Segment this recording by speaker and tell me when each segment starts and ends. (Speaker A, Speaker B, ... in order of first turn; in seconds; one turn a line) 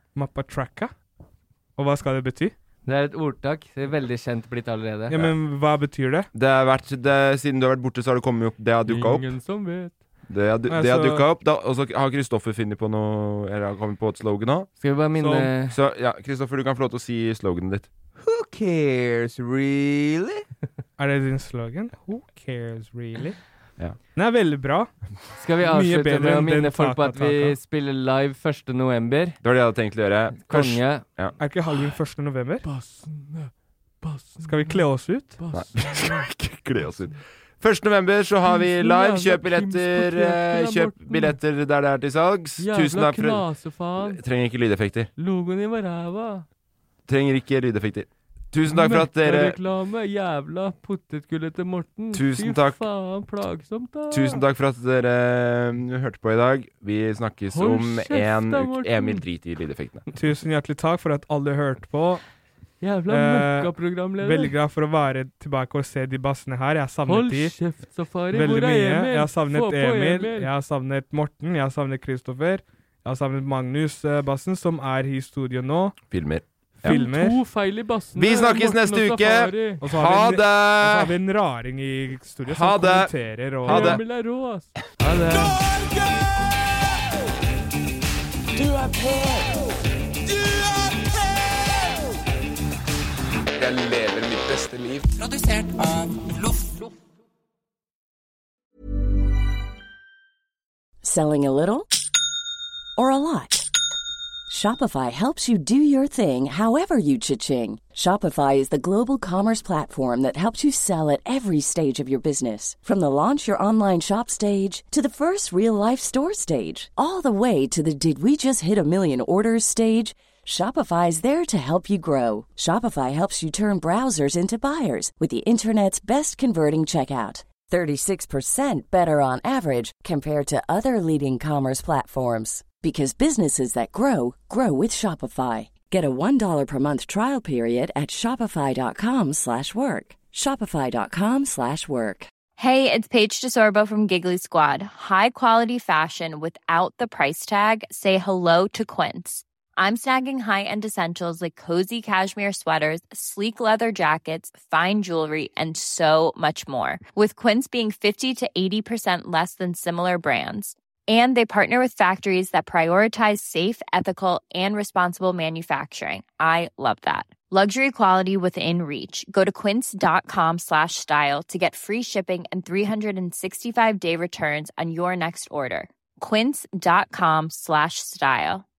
Speaker A: 0.1-0.9
Speaker A: 1.8-2.5
Speaker B: 2.8-5.1
Speaker A: 5.1-6.3
Speaker C: 6.3-9.3
Speaker B: 8.8-9.9
Speaker C: 10.3-14.7
Speaker A: 10.7-11.2
Speaker B: 14.8-15.8
Speaker A: 15.2-15.5
Speaker C: 15.7-17.9
Speaker C: 19.4-19.7
Speaker A: 21.0-23.4
Speaker A: 24.1-24.9
Speaker B: 25.4-29.4
Speaker A: 25.6-27.5
Speaker C: 29.4-31.3
Speaker B: 30.4-31.0
Speaker A: 31.4-32.6
Speaker B: 32.6-33.5
Speaker B: 34.0-34.8
Speaker A: 34.4-35.4
Speaker B: 35.4-36.3
Speaker C: 35.5-45.1
Speaker B: 38.5-41.3
Speaker B: 42.6-44.2
Speaker B: 45.2-46.4
Speaker C: 47.1-49.6
Speaker B: 48.7-54.4
Speaker C: 52.1-52.8
Speaker C: 54.1-60.0
Speaker B: 57.5-59.2
Speaker A: 60.1-62.2
Speaker B: 62.8-64.5
Speaker A: 63.1-67.5
Speaker B: 67.0-70.5
Speaker A: 68.3-75.9
Speaker C: 76.1-77.0
Speaker B: 76.8-79.8
Speaker A: 76.8-77.4
Speaker C: 78.1-81.2
Speaker A: 79.8-84.0
Speaker C: 82.4-84.0
Speaker B: 83.7-85.6
Speaker D: 88.6-89.7
Speaker D: 93.5-96.3
Speaker E: 101.0-101.9
Speaker E: 103.0-103.7
Speaker E: 104.5-142.3
Speaker F: 142.6-178.6